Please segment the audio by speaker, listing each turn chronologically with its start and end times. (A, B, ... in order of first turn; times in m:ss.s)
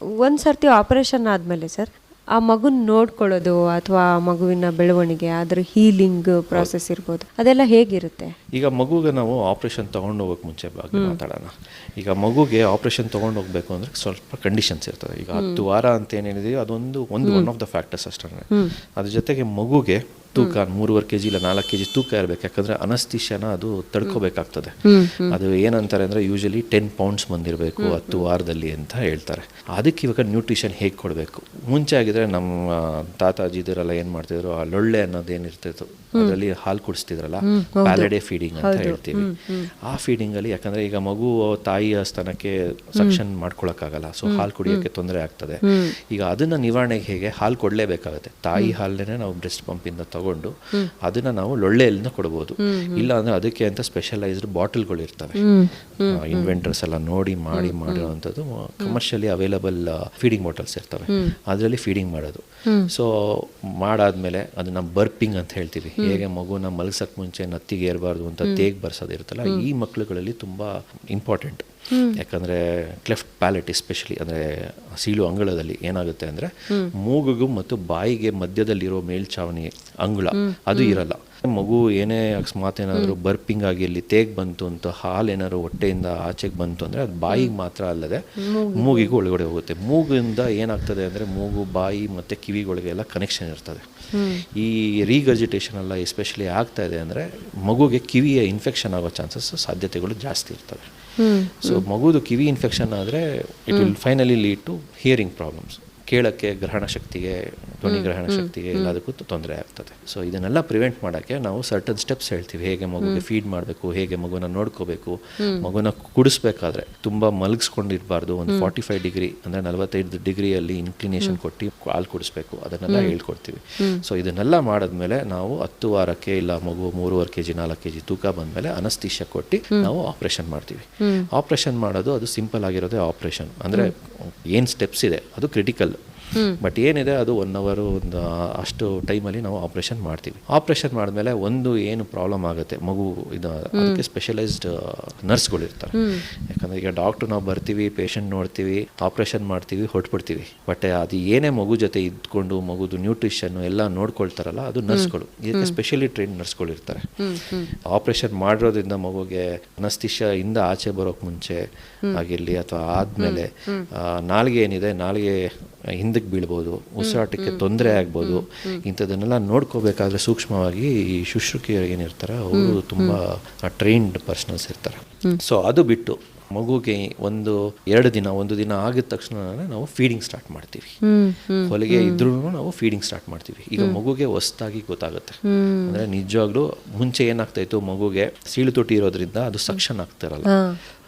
0:00.2-0:08.3 A
0:08.5-0:55.4 B
0:15.3-0:15.6 A
0:24.8-0:25.4 A
0:27.8-0:28.2 A
0:37.4-0:39.7 A
0:44.2-0:44.8 A
0:45.6-0:45.9 A
0:52.6-0:53.1 A
0:55.4-0:56.5 A
0:56.1-1:40.9 B
0:57.5-0:58.1 A
1:01.1-1:01.4 A
1:11.9-1:12.2 A
1:20.3-1:21.0 A
1:28.4-1:29.1 A
1:34.1-1:34.4 A
1:41.2-1:41.8 A
1:41.6-2:16.0 B
1:47.9-1:48.9 A
1:55.4-1:55.7 A
2:02.9-2:03.1 A
2:16.6-2:37.2 B
2:23.8-2:24.0 A
2:26.0-2:26.2 A
2:34.9-2:35.8 A
2:37.2-2:37.7 A
2:37.7-3:01.0 B
2:43.2-2:43.9 A
2:47.0-2:48.8 A
2:52.5-2:53.2 A
3:01.0-3:02.3 A
3:01.6-3:10.5 B
3:05.4-3:06.0 A
3:10.4-3:10.8 A